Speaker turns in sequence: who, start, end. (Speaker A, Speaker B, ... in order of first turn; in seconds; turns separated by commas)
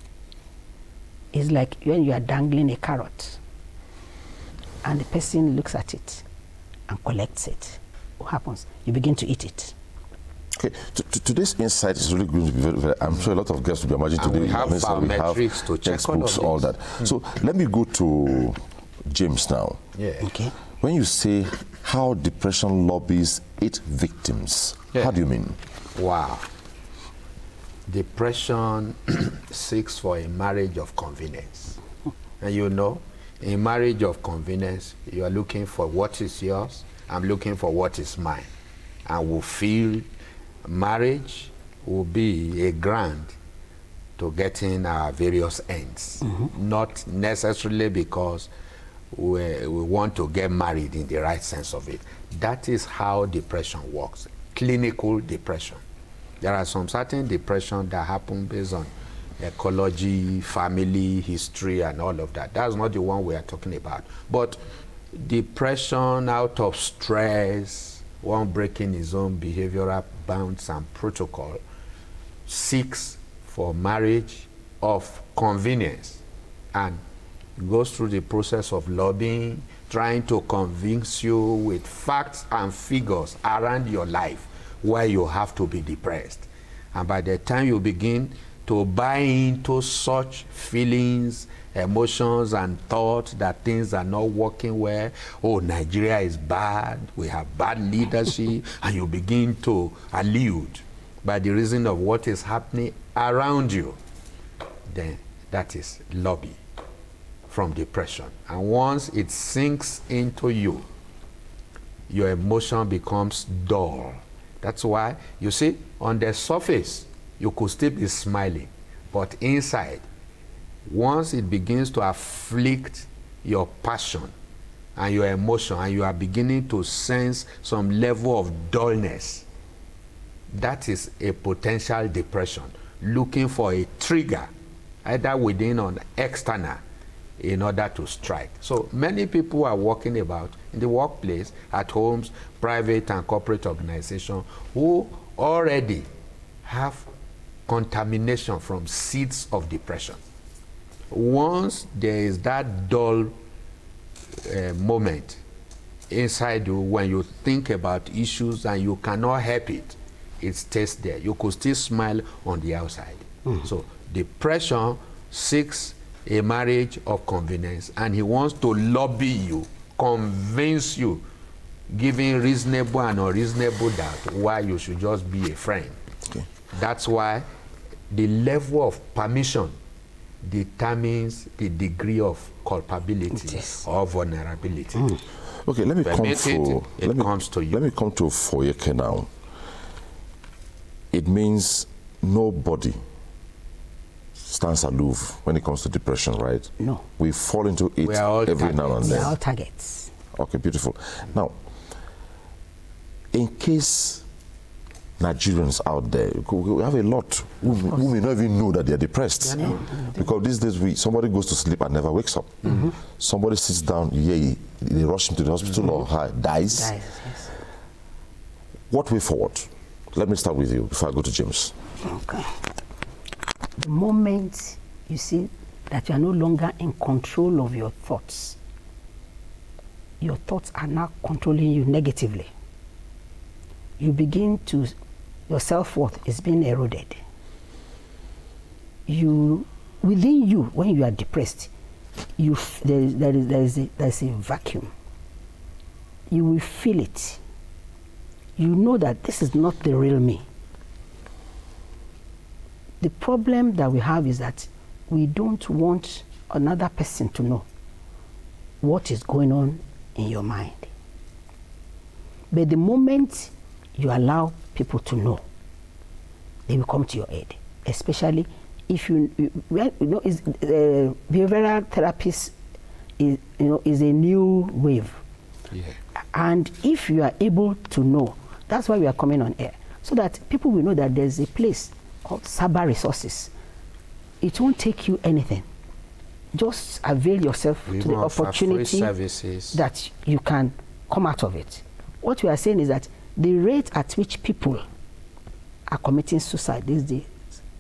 Speaker A: 1.3-3.4, Speaker A: 4.8-6.2, Speaker A: 6.9-9.8, Speaker B: 10.6-19.8, Speaker C: 14.2-17.1, Speaker C: 19.9-20.4, Speaker A: 20.2-20.5, Speaker B: 20.8-25.6, Speaker C: 26.0-26.5, Speaker C: 27.9-31.8, Speaker C: 32.4-38.5, Speaker C: 39.1-40.1, Speaker C: 40.6-43.3, Speaker C: 44.2-48.5, Speaker C: 49.1-55.8, Speaker C: 56.4-64.6, Speaker C: 65.1-71.6, Speaker C: 72.5-76.2, Speaker C: 76.7-77.0, Speaker C: 77.6-104.0, Speaker C: 104.9-106.6, Speaker C: 107.5-110.9, Speaker C: 112.1-120.0, Speaker C: 120.9-124.3, Speaker C: 125.0-129.4, Speaker C: 130.5-134.5, Speaker C: 135.0-136.8, Speaker C: 137.4-146.1, Speaker C: 146.6-147.1, Speaker C: 147.7-150.2, Speaker C: 151.1-153.3, Speaker C: 154.4-155.4, Speaker C: 156.1-171.3, Speaker C: 171.9-176.0, Speaker C: 176.7-177.5, Speaker C: 178.1-179.8, Speaker C: 180.4-185.2, Speaker B: 185.6-189.3, Speaker C: 186.1-187.8, Speaker B: 191.1-193.0, Speaker B: 194.4-199.3, Speaker A: 196.8-197.0, Speaker C: 198.0-199.4, Speaker A: 199.0-200.1, Speaker B: 200.3-201.6, Speaker B: 203.3-204.2, Speaker B: 205.2-216.9, Speaker C: 209.4-209.9, Speaker A: 209.6-210.2, Speaker A: 212.7-212.9, Speaker A: 216.7-217.5, Speaker B: 218.9-221.7, Speaker A: 222.0-222.6, Speaker A: 223.8-228.6, Speaker A: 230.2-232.5, Speaker A: 234.0-234.9, Speaker A: 235.5-237.2, Speaker A: 239.1-241.7, Speaker A: 242.4-244.9, Speaker A: 246.3-247.4, Speaker A: 248.6-250.5, Speaker A: 253.0-257.7, Speaker A: 258.8-260.9, Speaker A: 262.5-265.4, Speaker A: 266.7-272.5, Speaker A: 273.2-275.2, Speaker C: 275.7-276.0, Speaker A: 276.3-283.5, Speaker A: 284.4-285.7, Speaker A: 286.5-289.1, Speaker C: 287.9-289.8, Speaker A: 289.7-294.8, Speaker A: 295.9-297.3